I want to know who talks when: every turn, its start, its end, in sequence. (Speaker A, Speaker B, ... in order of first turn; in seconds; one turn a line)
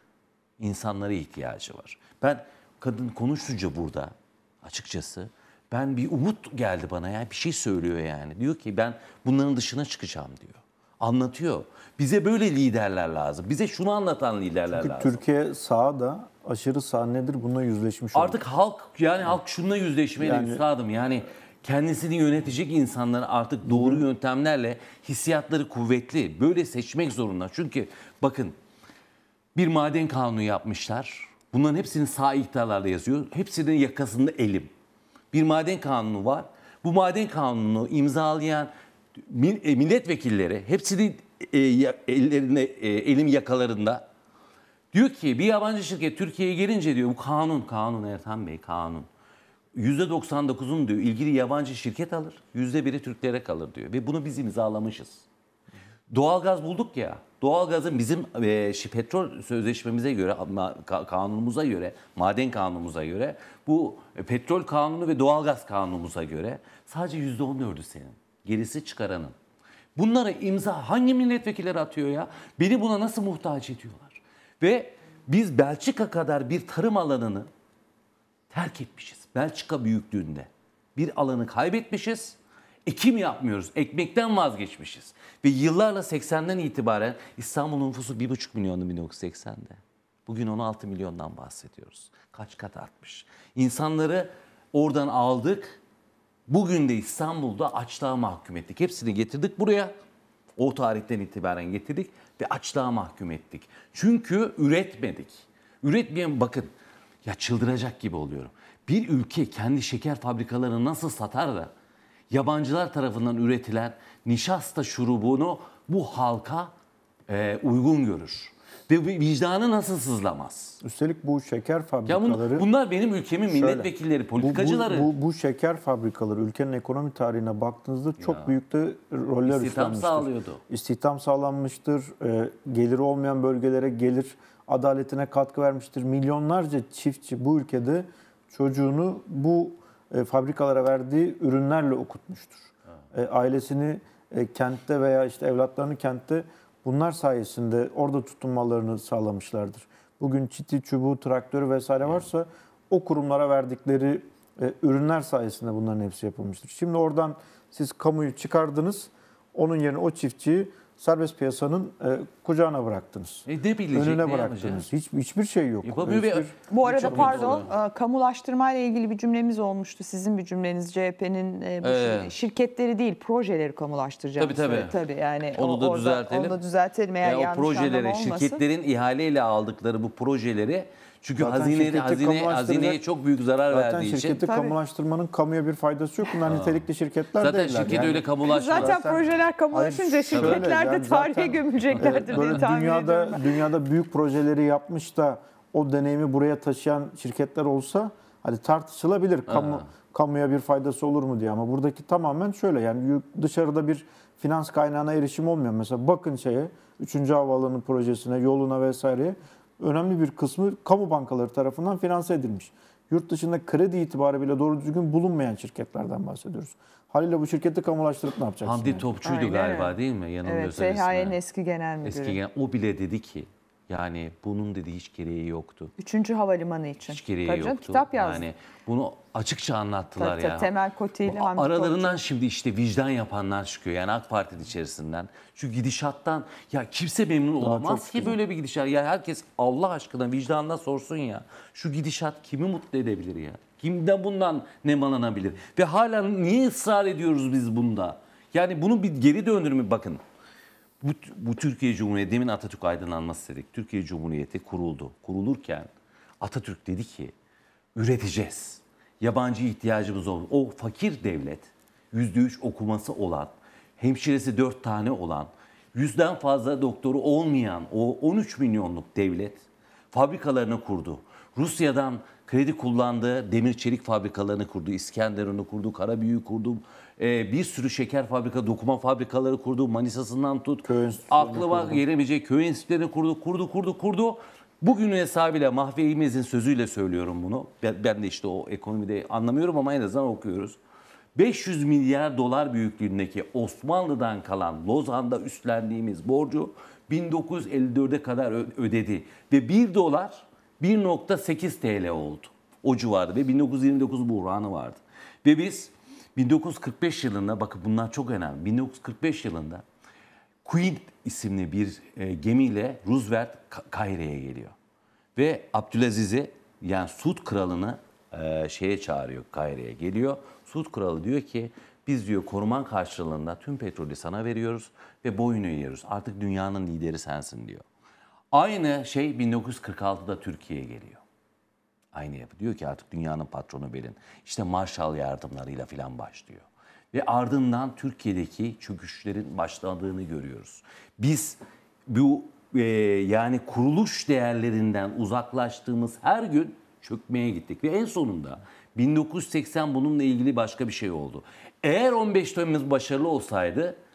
Speaker A: 0.6-15.2
Speaker B: 14.7-18.4
Speaker A: 18.1-28.5
Speaker B: 20.2-20.6
Speaker B: 23.6-24.0
Speaker A: 29.5-34.7
Speaker A: 35.3-38.7
Speaker A: 39.2-44.0
Speaker A: 44.9-49.1
Speaker A: 49.8-55.2
Speaker A: 56.1-69.3
Speaker A: 70.0-77.5
Speaker A: 78.5-95.8
Speaker A: 96.5-99.9
Speaker A: 100.6-106.7
Speaker A: 107.2-111.7
Speaker A: 112.3-116.7
Speaker A: 117.3-120.8
Speaker B: 120.8-122.7
Speaker A: 122.0-125.1
Speaker B: 123.5-167.5
Speaker A: 128.2-128.6
Speaker A: 129.4-130.6
Speaker A: 163.4-164.9
Speaker A: 165.8-167.7
Speaker C: 166.7-178.6
Speaker A: 171.8-172.3
Speaker A: 174.4-174.9
Speaker A: 175.5-176.6
Speaker A: 177.2-184.4
Speaker B: 181.4-183.0
Speaker B: 183.7-219.1
Speaker C: 184.4-184.7
Speaker A: 186.4-186.8
Speaker A: 187.4-189.0
Speaker C: 188.4-193.4
Speaker A: 190.3-190.6
Speaker A: 191.9-192.6
Speaker A: 199.5-199.8
Speaker A: 218.6-221.4
Speaker C: 219.2-222.4
Speaker A: 222.0-225.9
Speaker C: 226.0-228.5
Speaker A: 227.1-230.7
Speaker C: 230.2-232.2
Speaker A: 231.2-250.2
Speaker B: 237.6-238.4
Speaker A: 251.0-255.9
Speaker A: 256.4-257.3
Speaker A: 257.9-290.8
Speaker B: 280.8-282.0
Speaker A: 291.4-309.8
Speaker A: 310.6-314.7
Speaker A: 315.4-327.8
Speaker A: 328.5-331.2
Speaker A: 332.1-354.0